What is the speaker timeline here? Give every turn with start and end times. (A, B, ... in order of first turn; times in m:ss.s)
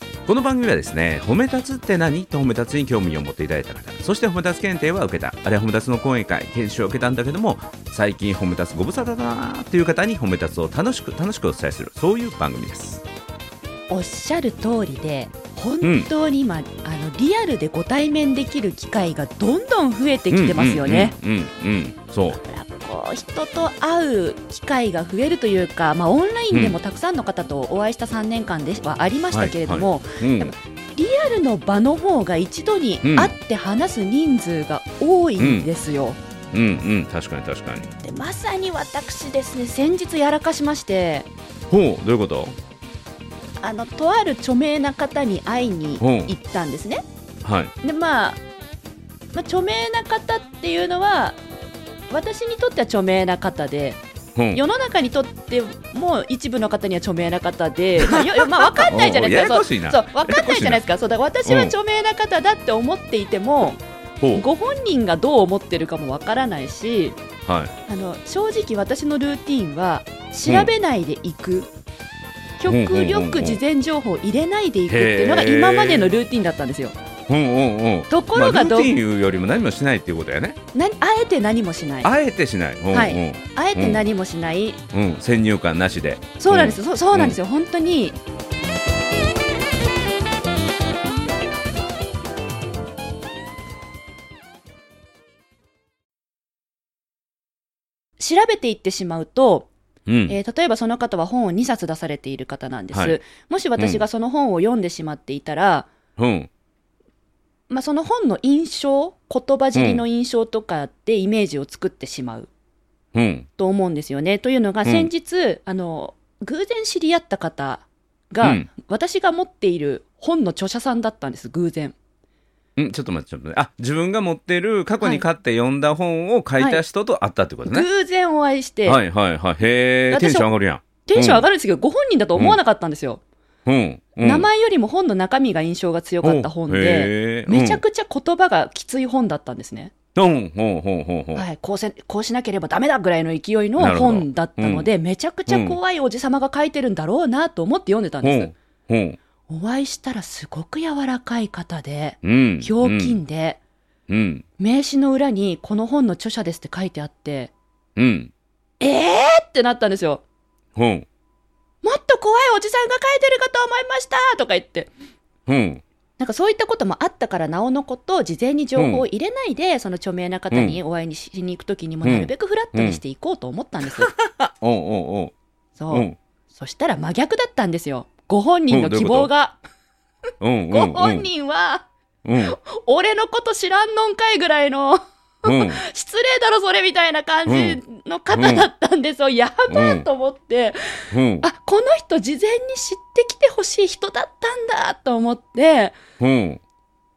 0:00.3-0:13.0 A
0:13.9-0:21.2 B
0:15.8-0:16.1 A
0:20.3-0:22.4 A
0:22.3-0:36.2 B
0:26.5-0:26.8 A
0:29.3-0:30.5 A
0:33.0-0:33.3 A
0:35.4-0:35.7 A
0:36.5-0:37.9 A
0:38.0-0:41.3 B
0:41.7-0:42.5 A
0:43.6-0:47.0 B
0:46.0-0:46.3 A
0:47.4-0:47.7 A
0:47.8-0:48.4 B
0:49.3-0:51.4 B
0:52.1-0:54.0 B
0:54.4-0:54.6 A
0:54.5-1:03.8 B
0:58.0-1:00.8 A
1:01.5-1:01.7 A
1:04.2-1:04.5 A
1:04.3-1:07.2 B
1:07.5-1:07.7 A
1:07.9-1:11.7 B
1:10.5-1:10.7 A
1:12.6-1:17.0 B
1:12.7-1:13.6 A
1:14.9-1:16.2 A
1:17.3-1:20.6 A
1:18.1-1:18.9 B
1:20.7-1:22.1 B
1:22.0-1:24.0 A
1:22.9-1:24.8 B
1:24.9-1:27.4 A
1:26.4-1:28.2 B
1:38.2-1:39.7 B
1:40.1-1:40.4 A
1:40.3-1:45.9 B
1:42.9-1:43.2 A
1:43.8-1:44.0 A
1:46.2-1:46.5 A
1:47.7-1:52.5 B
1:49.7-1:50.0 A
1:53.1-1:53.5 A
1:53.6-2:02.0 B
1:54.8-1:55.1 A
1:58.4-1:58.7 A
2:02.8-2:07.9 A
2:07.7-2:09.0 B
2:08.8-2:11.5 A
2:10.1-2:10.5 B
2:11.0-2:13.2 B
2:13.7-2:14.5 A
2:14.2-2:19.9 B
2:16.2-2:17.8 A
2:20.2-2:21.4 A
2:21.3-2:28.5 B
2:23.8-2:24.9 A
2:25.5-2:25.8 A
2:28.2-2:29.2 A
2:29.5-2:33.6 B
2:32.2-2:33.2 A
2:34.1-2:34.4 A
2:34.6-2:37.5 B
2:38.0-2:38.3 A
2:38.8-2:40.2 B
2:40.8-2:41.0 A
2:41.8-2:44.9 B
2:45.5-2:45.8 A
2:46.2-2:54.1 B
2:48.8-2:49.0 A
2:50.5-2:50.8 A
2:52.0-2:53.0 A
2:54.0-2:55.3 A
2:55.8-2:59.6 B
2:55.9-2:56.2 A
2:58.7-2:59.3 A
3:00.4-3:01.3 A
3:00.7-3:01.9 B
3:02.2-3:02.6 A
3:02.4-3:16.0 B
3:05.4-3:05.8 A
3:07.5-3:07.8 A
3:08.3-3:08.6 A
3:09.7-3:10.0 A
3:11.1-3:11.5 A
3:16.2-3:16.6 A